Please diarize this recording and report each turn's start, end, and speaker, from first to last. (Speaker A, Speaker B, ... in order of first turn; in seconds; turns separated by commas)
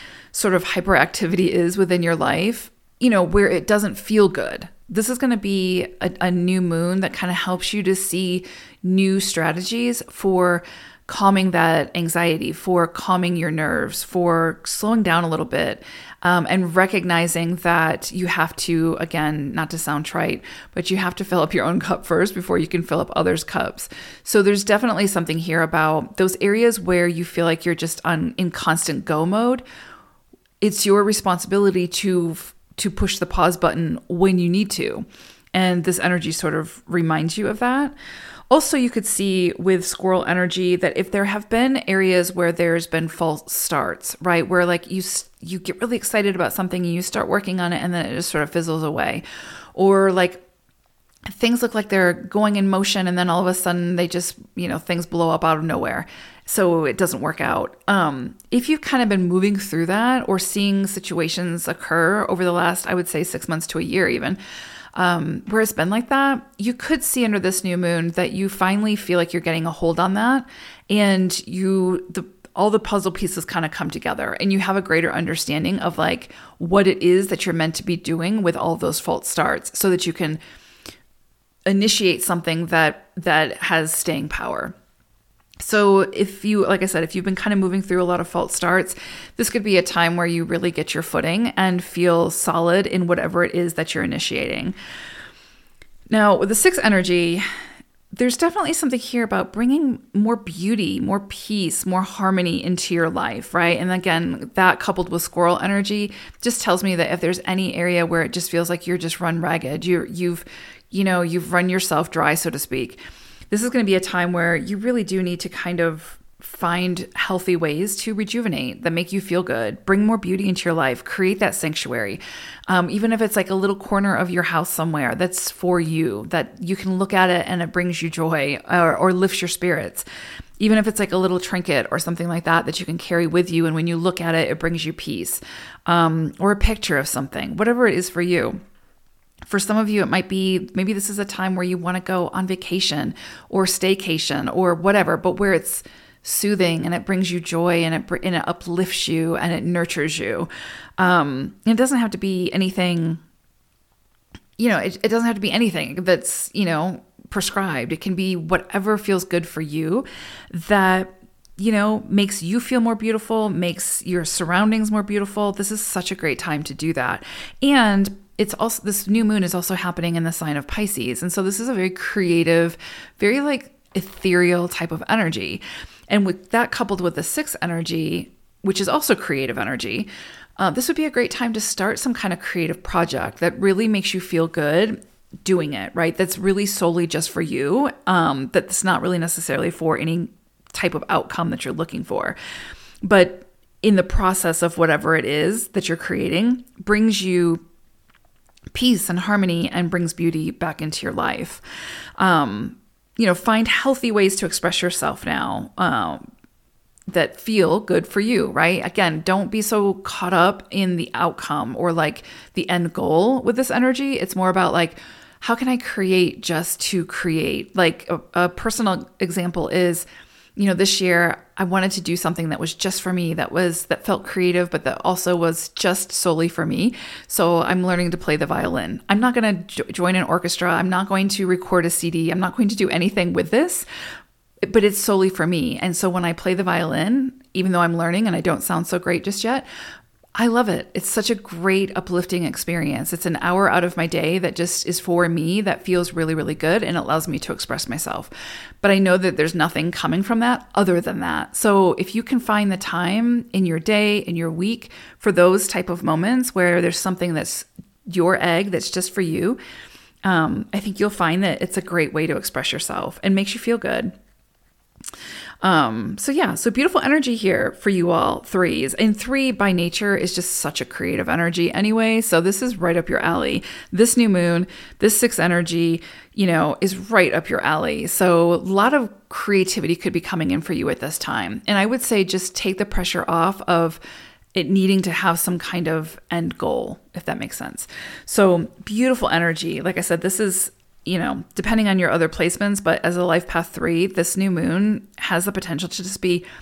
Speaker A: 0.3-29.6, Speaker A: 30.6-38.0, Speaker A: 38.5-49.2, Speaker A: 49.8-50.4, Speaker A: 51.3-64.4, Speaker A: 65.0-80.4, Speaker A: 81.7-84.7, Speaker A: 85.6-94.7, Speaker A: 96.1-97.5, Speaker A: 98.1-113.0, Speaker A: 113.5-130.1, Speaker A: 130.6-138.6, Speaker A: 139.5-153.2, Speaker A: 154.6-192.4, Speaker A: 193.0-197.6, Speaker A: 198.7-201.6, Speaker A: 202.2-206.3, Speaker A: 207.1-220.1, Speaker A: 220.6-233.9, Speaker A: 234.6-239.7, Speaker A: 240.4-259.6, Speaker A: 260.2-264.1, Speaker A: 265.6-284.0, Speaker A: 284.6-296.5